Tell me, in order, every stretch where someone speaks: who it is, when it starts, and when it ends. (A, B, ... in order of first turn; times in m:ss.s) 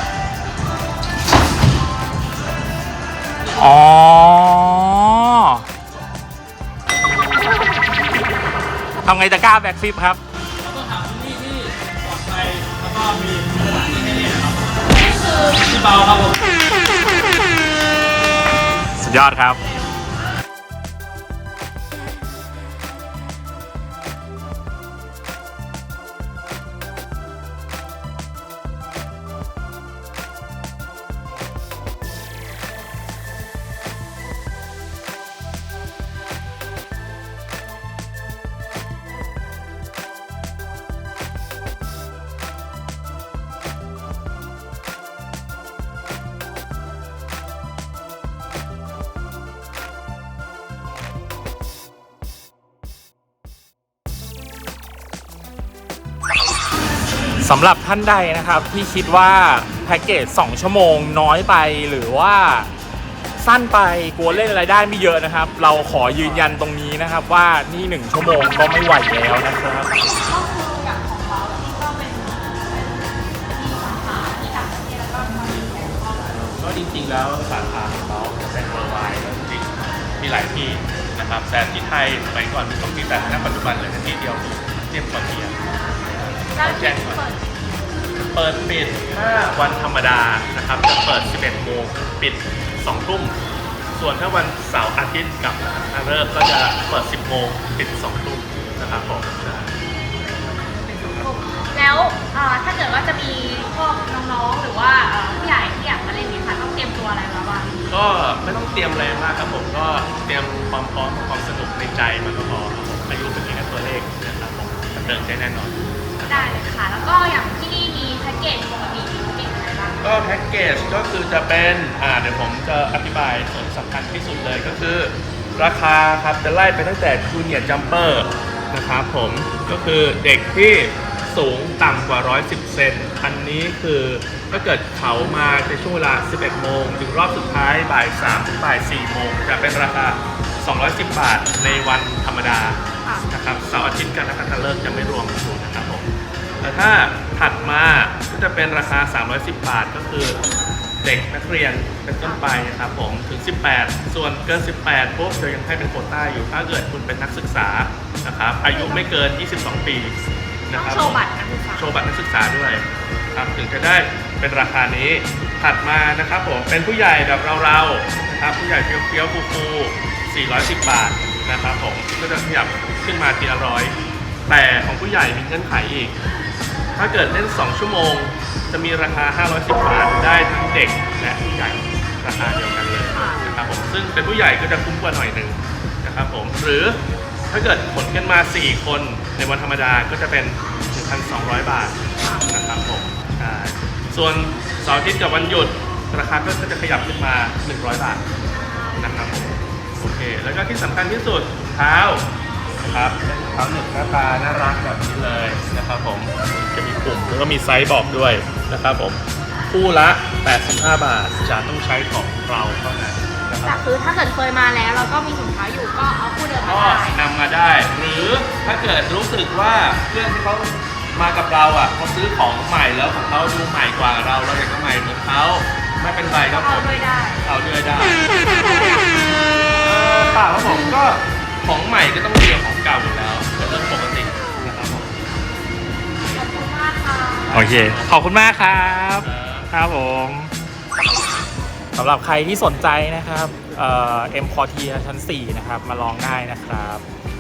0:03.6-0:05.6 A
0:09.0-0:10.2 A
0:10.6-0:16.5 B
0:19.0-0:19.6 A
0:57.4-1:02.7 A
1:03.4-1:09.9 A
1:05.9-1:06.6 C
1:10.2-1:16.3 D
1:16.1-1:25.6 C
1:25.6-1:27.4 D
1:26.5-1:27.2 C
1:28.3-1:33.4 C
1:33.9-1:39.7 C
1:40.8-1:47.8 D
1:47.9-1:56.7 C
1:56.2-2:00.1 D
2:00.0-2:26.1 C
2:26.6-2:30.4 C
2:31.0-2:41.2 C
2:38.6-2:39.1 D
2:40.7-2:42.0 D
2:41.7-2:54.0 C
2:54.5-2:56.2 C
2:56.9-3:07.0 C
3:03.1-3:03.4 D
3:07.5-3:18.2 C
3:12.2-3:12.5 D
3:18.7-3:19.1 D
3:19.0-3:22.2 C
3:22.8-3:33.8 C
3:33.6-3:37.2 D
3:36.6-3:49.0 C
3:46.4-3:47.5 D
3:48.4-3:49.3 D
3:49.8-3:55.1 C
3:56.3-3:57.7 D
3:57.5-3:58.3 C
3:57.5-4:00.5 A
3:59.2-3:59.7 C
4:01.9-4:07.0 A